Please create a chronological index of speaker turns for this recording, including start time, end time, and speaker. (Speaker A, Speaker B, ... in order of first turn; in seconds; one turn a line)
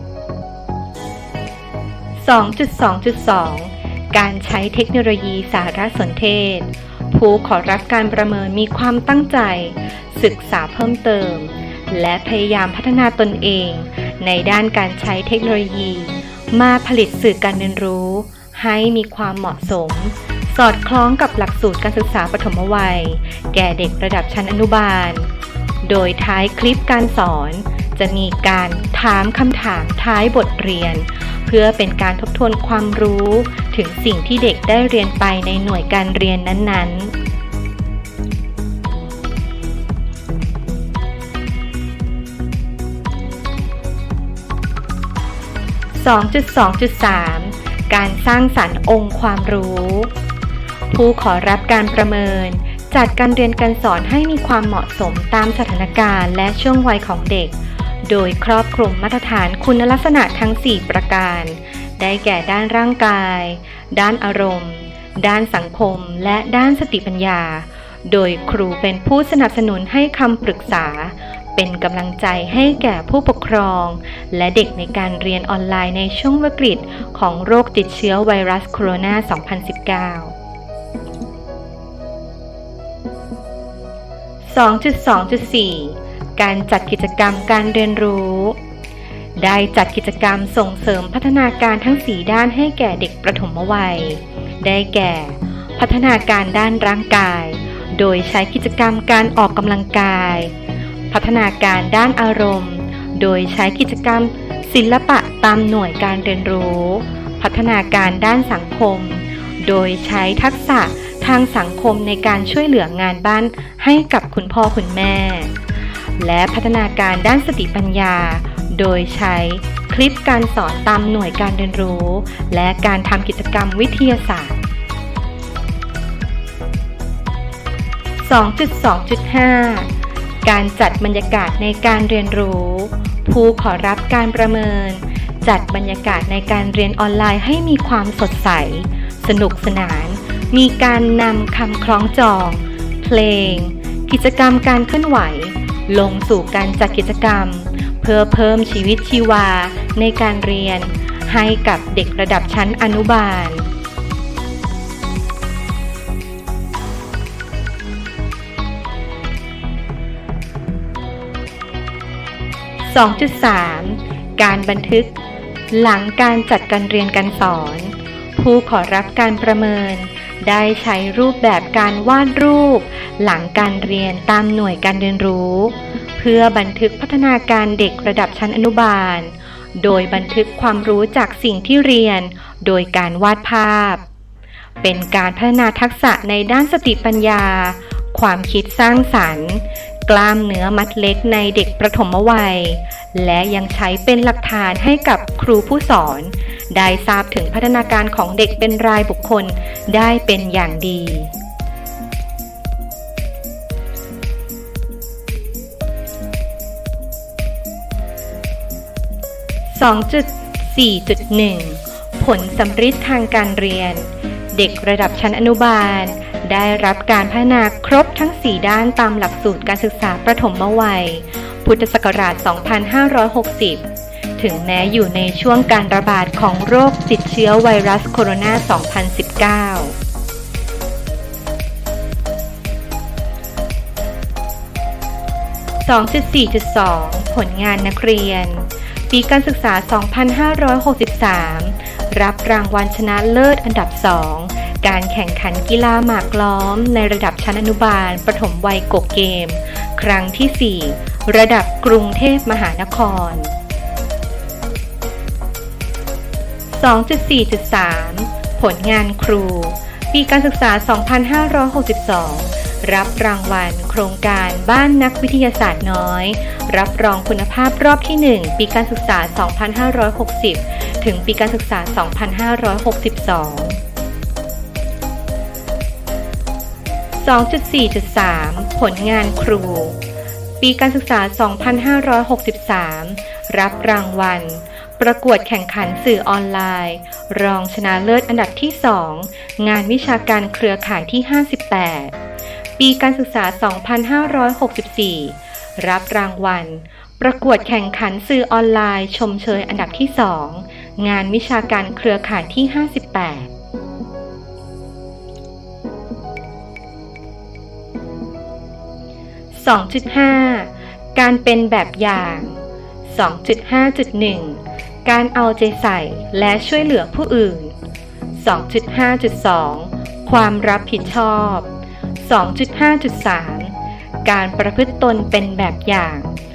Speaker A: 2.2-25.3
Speaker A: 25.8-37.1
Speaker A: 46.0-50.1
Speaker A: 50.9-80.3
Speaker A: 84.4-88.6
Speaker A: 89.4-100.5
Speaker A: 101.1-115.5
Speaker A: 116.2-124.6
Speaker A: 128.2-129.9
Speaker A: 130.4-153.7
Speaker A: 162.8-165.1
Speaker A: 165.7-184.0
Speaker A: 184.8-201.3
Speaker A: 209.7-223.9
Speaker A: 224.4-230.0
Speaker A: 235.8-253.5
Speaker A: 256.7-273.8
Speaker A: 277.2-280.0
Speaker A: 280.6-292.1
Speaker A: 292.8-303.5
Speaker A: 309.5-317.7
Speaker A: 318.3-321.7
Speaker A: 322.2-326.3